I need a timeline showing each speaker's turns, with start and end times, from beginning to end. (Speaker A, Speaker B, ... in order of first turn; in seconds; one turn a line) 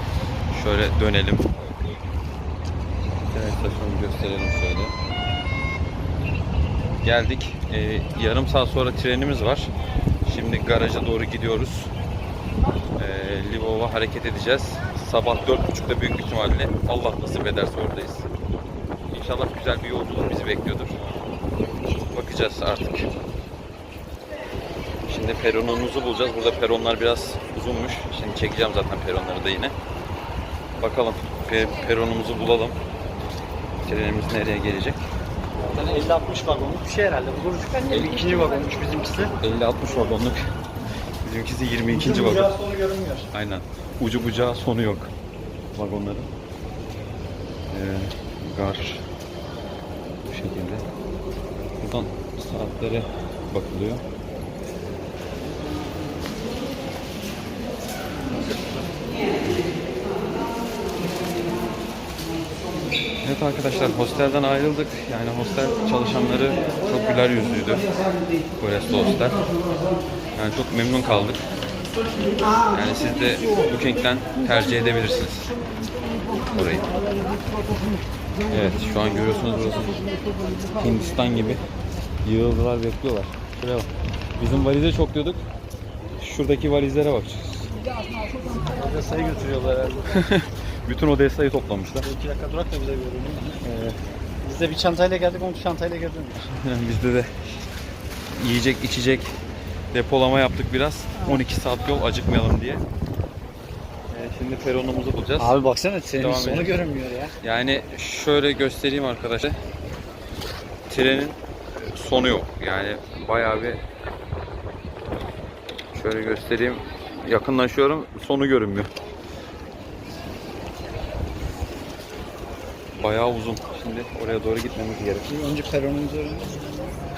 Speaker A: 0.5-1.5
Speaker A: 3.3-5.0
Speaker A: 7.0-9.7
Speaker A: 10.2-11.9
Speaker A: 13.0-18.3
Speaker A: 19.1-21.0
Speaker A: 22.1-23.1
Speaker A: 25.1-29.7
Speaker A: 30.8-32.8
Speaker A: 33.9-35.0
Speaker B: 35.7-39.4
Speaker A: 37.9-38.4
Speaker A: 39.4-40.4
Speaker A: 41.2-42.6
Speaker B: 41.9-43.3
Speaker A: 43.3-45.1
Speaker A: 45.7-46.3
Speaker A: 47.7-49.1
Speaker A: 50.2-50.9
Speaker A: 51.8-54.0
Speaker A: 63.2-67.9
Speaker A: 68.6-69.5
Speaker A: 70.3-71.4
Speaker A: 72.7-75.5
Speaker A: 76.5-76.9
Speaker A: 78.5-80.1
Speaker A: 80.8-81.6
Speaker A: 82.2-85.5
Speaker A: 86.2-87.7
Speaker B: 88.7-90.2
Speaker A: 90.1-92.1
Speaker B: 92.0-93.6
Speaker A: 93.6-94.0
Speaker B: 94.4-96.4
Speaker A: 96.5-97.3
Speaker A: 98.4-99.4
Speaker A: 99.9-102.8
Speaker A: 104.1-105.6
Speaker B: 105.4-107.3
Speaker A: 106.1-106.8
Speaker A: 107.4-109.6
Speaker A: 110.9-113.8
Speaker A: 115.9-118.9
Speaker A: 123.0-125.3
Speaker B: 125.3-126.9